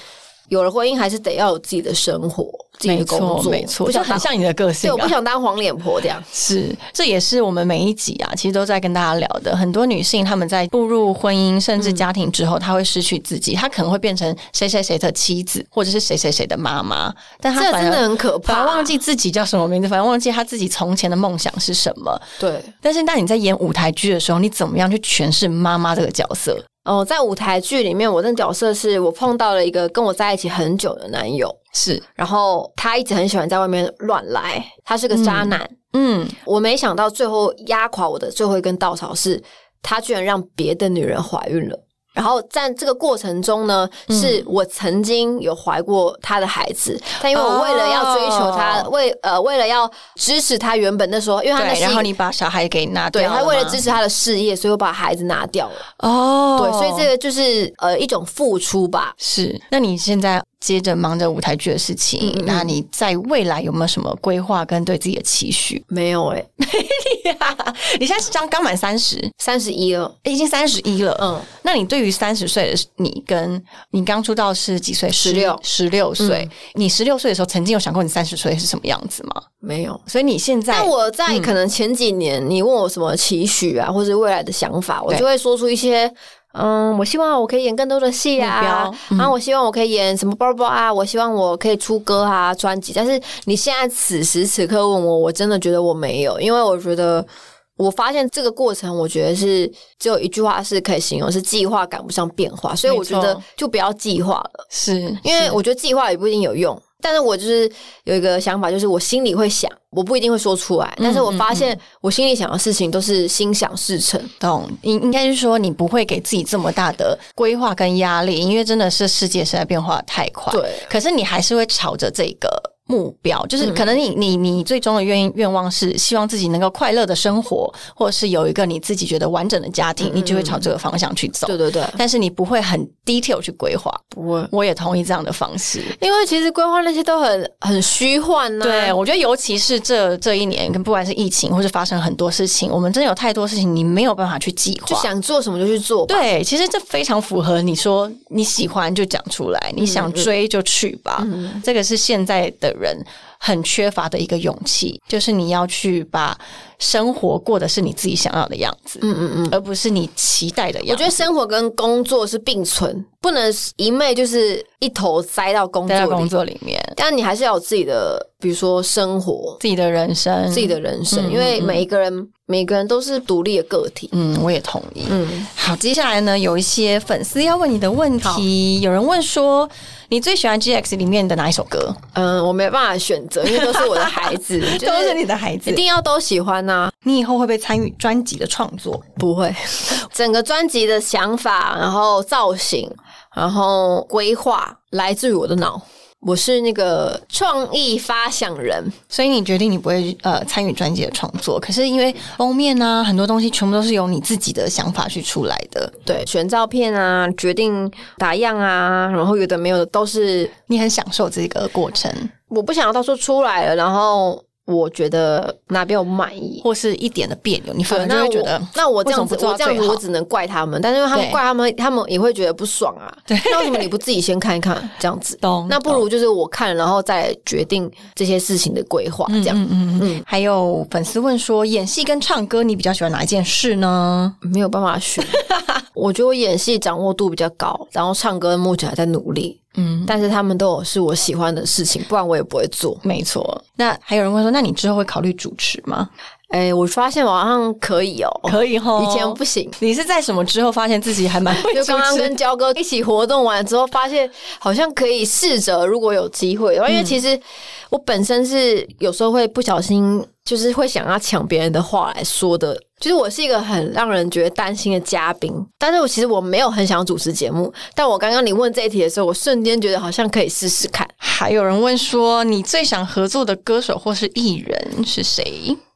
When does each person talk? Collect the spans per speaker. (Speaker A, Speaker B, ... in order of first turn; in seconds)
Speaker A: 0.5-4.3, 4.8-6.3, 17.5-18.9, 22.4-22.7, 26.8-31.6, 32.1-35.7, 36.4-52.1, 53.1-55.9, 56.6-59.1, 62.2-62.7, 65.9-66.5, 69.4-70.1, 71.2-71.5, 75.2-75.6, 76.2-76.5, 79.6-80.0, 80.7-104.7, 105.2-114.3, 120.5-120.9, 130.0-130.7, 131.4-132.0, 134.1-134.5, 136.0-138.9, 144.9-146.2, 149.8-150.3, 151.2-151.6, 159.0-159.6, 160.9-166.3, 166.9-169.6, 170.5-174.1, 175.1-175.5, 182.1-186.9, 189.2-199.0, 206.1-210.5, 212.5-216.6, 217.9-230.2, 234.4-235.4, 235.9-243.0, 246.5-249.8, 251.6-271.1
Speaker B: 2.8-5.1, 6.3-22.2, 22.8-26.6, 31.7-32.0, 35.1-36.4, 44.1-44.4, 47.2-48.9, 51.5-53.8, 56.0-57.1, 59.2-65.8, 66.6-69.3, 70.2-79.4, 80.1-81.5, 88.4-89.3, 102.8-103.4, 104.7-105.6, 111.0-111.7, 114.4-135.9, 138.6-145.1, 146.1-161.2, 165.9-166.9, 169.6-171.8, 174.1-182.0, 183.4-185.8, 187.0-189.1, 199.1-205.9, 210.7-212.3, 216.6-220.0, 221.1-221.4, 223.3-223.9, 225.4-226.0, 229.3-234.3, 235.2-235.8, 239.8-240.1, 243.0-246.1, 248.4-252.3, 256.9-257.2, 271.2-275.8